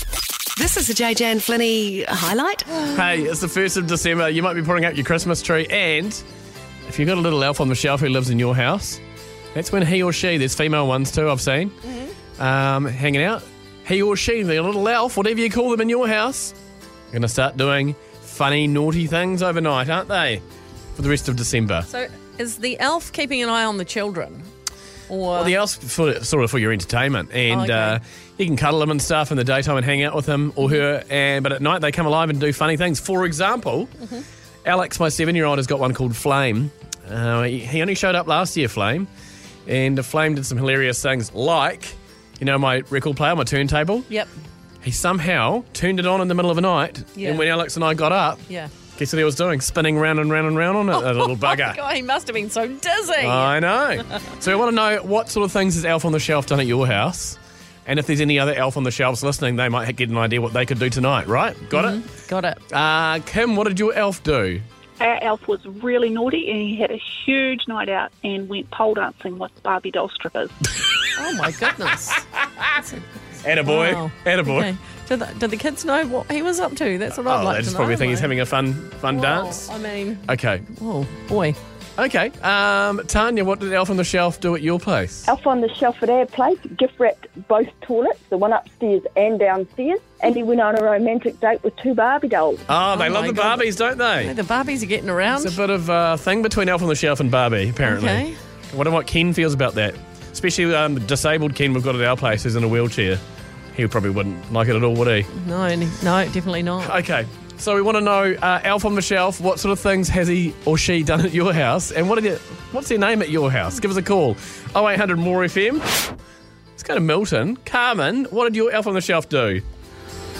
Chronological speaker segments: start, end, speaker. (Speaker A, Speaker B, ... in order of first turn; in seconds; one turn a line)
Speaker A: 0.6-2.7
Speaker B: 2.8-6.2
Speaker B: 6.8-9.0
Speaker B: 9.5-11.7
Speaker B: 12.4-16.5
Speaker B: 17.1-20.4
Speaker B: 20.9-21.9
Speaker C: 21.9-24.5
Speaker C: 25.1-25.6
Speaker B: 25.3-33.9
Speaker C: 27.5-28.0
Speaker B: 34.6-39.1
Speaker B: 39.6-44.1
Speaker B: 44.8-48.4
Speaker C: 47.2-47.5
Speaker B: 49.0-51.8
Speaker C: 50.9-53.5
Speaker B: 53.2-62.0
Speaker C: 61.7-62.6
Speaker B: 62.7-64.6
Speaker D: 65.0-70.7
Speaker C: 71.2-72.2
Speaker B: 72.4-72.8
Speaker B: 73.4-74.7
Speaker C: 73.6-78.3
Speaker B: 77.2-79.7
Speaker C: 79.1-81.6
Speaker B: 80.2-80.7
Speaker B: 82.0-85.3
Speaker E: 85.3-92.6
Speaker B: 92.7-94.3
Speaker C: 92.8-93.7
Speaker C: 94.2-95.6
Speaker B: 95.3-103.2
Speaker C: 97.8-98.3
Speaker B: 103.7-105.3
Speaker C: 105.3-107.0
Speaker B: 106.8-116.1
Speaker B: 116.8-119.6